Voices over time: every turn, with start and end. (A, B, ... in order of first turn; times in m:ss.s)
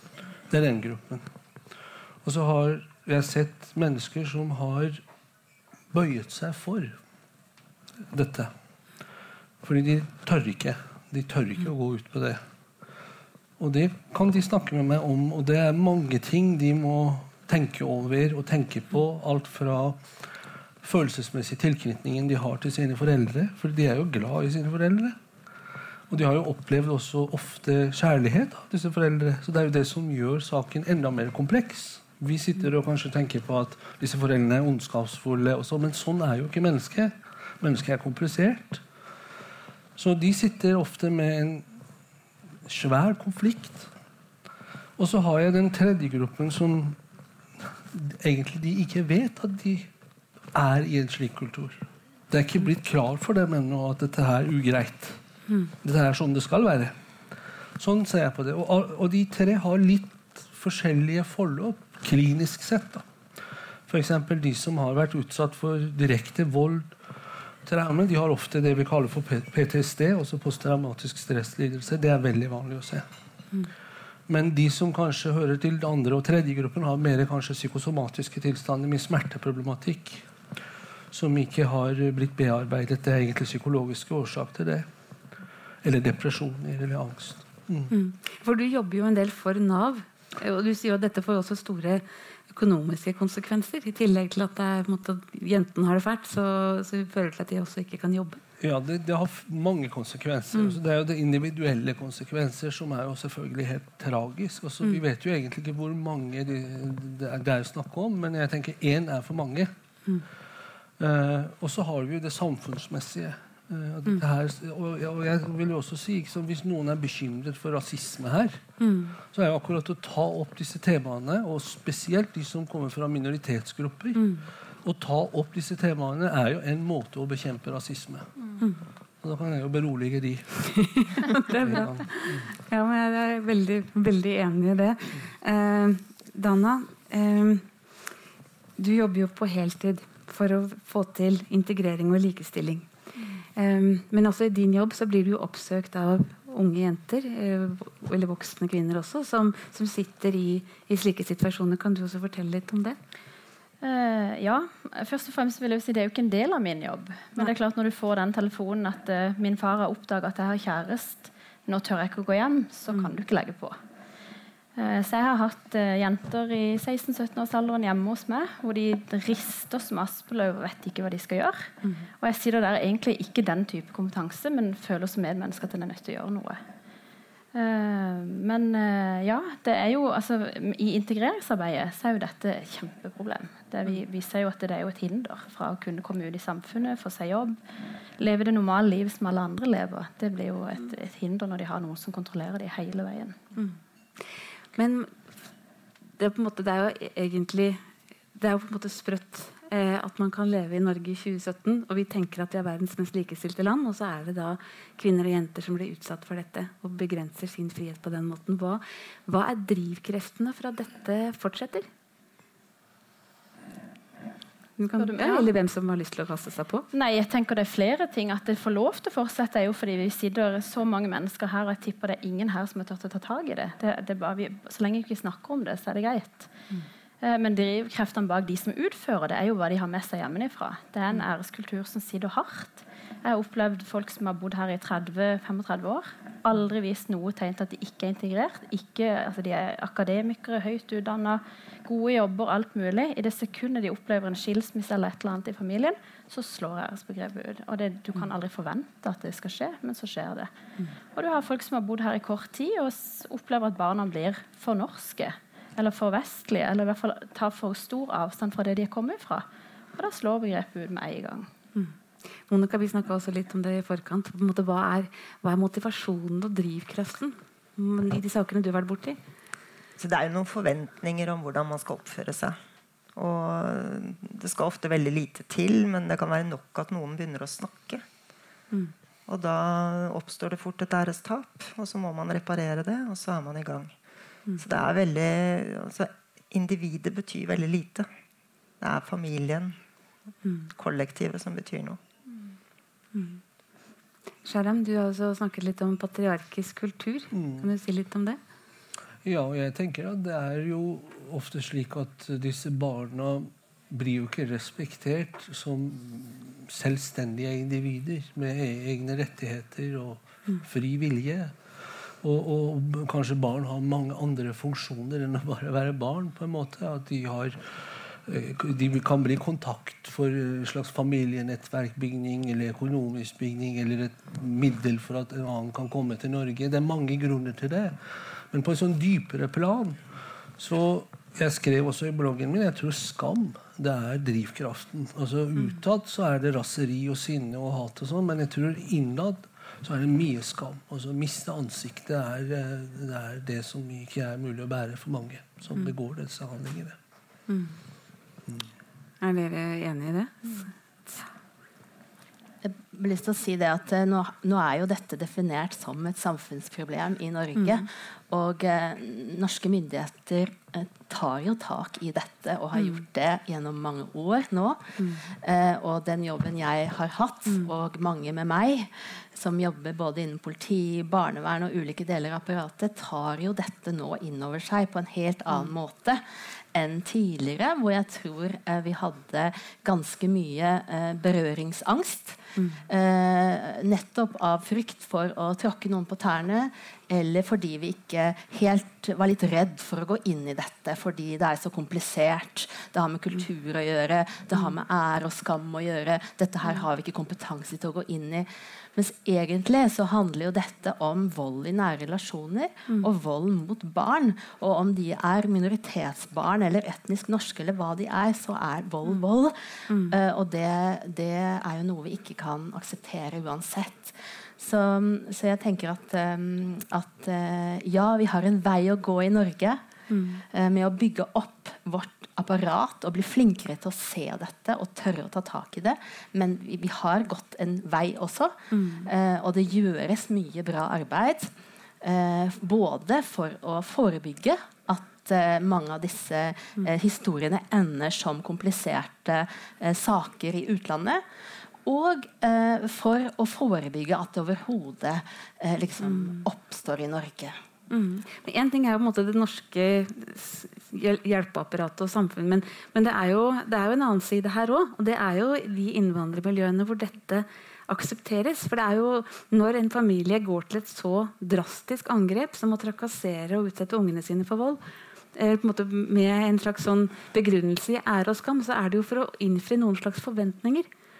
0:00.5-0:01.2 A
0:02.2-0:05.0 A
0:05.9-0:07.0 A
0:08.1-0:08.5 A
0:09.6-0:12.4 A
0:13.6-0:20.0 A
0:20.8-0:25.2 A
0:26.1-0:38.8 A
0:40.0-0:41.7 A
0:42.6-0:43.9 A
0:45.0-0:47.0 A
0:47.6-0:49.9 A
0:50.5-0:55.2 A
0:55.8-0:56.9 A
0:57.8-1:03.0 A
1:03.9-1:06.9 A
1:07.6-1:13.0 A
1:14.3-1:20.2 A
1:21.1-1:24.9 A
1:25.8-1:27.9 A
1:27.9-1:38.4 B
1:38.6-1:49.7 A
1:51.0-1:58.6 A
1:58.8-1:59.2 B
1:59.2-2:08.3 A
2:04.2-2:04.4 B
2:09.2-2:12.5 A
2:10.7-2:17.6 B
2:18.8-2:22.9 B
2:23.6-2:33.0 B
2:33.8-2:43.8 C
2:44.8-2:56.6 C
2:57.5-3:07.6 C
3:08.2-3:13.4 C
3:14.7-3:15.2 B
3:16.2-3:17.8 B
3:18.3-3:31.9 B
3:34.8-3:36.8 B
3:35.0-3:35.5 C
3:36.9-3:46.5 C
3:47.2-4:10.5 C
4:11.1-4:21.5 C
4:22.5-4:29.2 B
4:30.0-4:32.6 D
4:33.2-4:38.0 D
4:39.3-4:43.9 D
4:44.6-4:48.1 D
4:48.8-4:49.8 D
4:50.7-4:52.0 D
4:53.1-4:53.4 B
4:54.4-4:58.4 B
4:57.3-4:57.7 A
4:59.2-5:11.5 A
5:12.2-5:30.0 A
5:30.6-5:47.0 A
5:47.5-5:47.8 B
5:49.2-5:51.2 B
5:52.6-6:49.6 E
5:57.6-5:57.8 B
6:05.0-6:05.3 B
6:22.6-6:22.8 B
6:49.9-6:50.2 B
6:50.1-6:59.8 E
7:00.1-7:00.4 B
7:00.4-7:11.5 E
7:08.7-7:09.1 B
7:12.0-7:21.2 E
7:21.8-7:27.6 E
7:26.0-7:26.4 B
7:27.9-7:44.8 B
7:45.3-7:50.9 B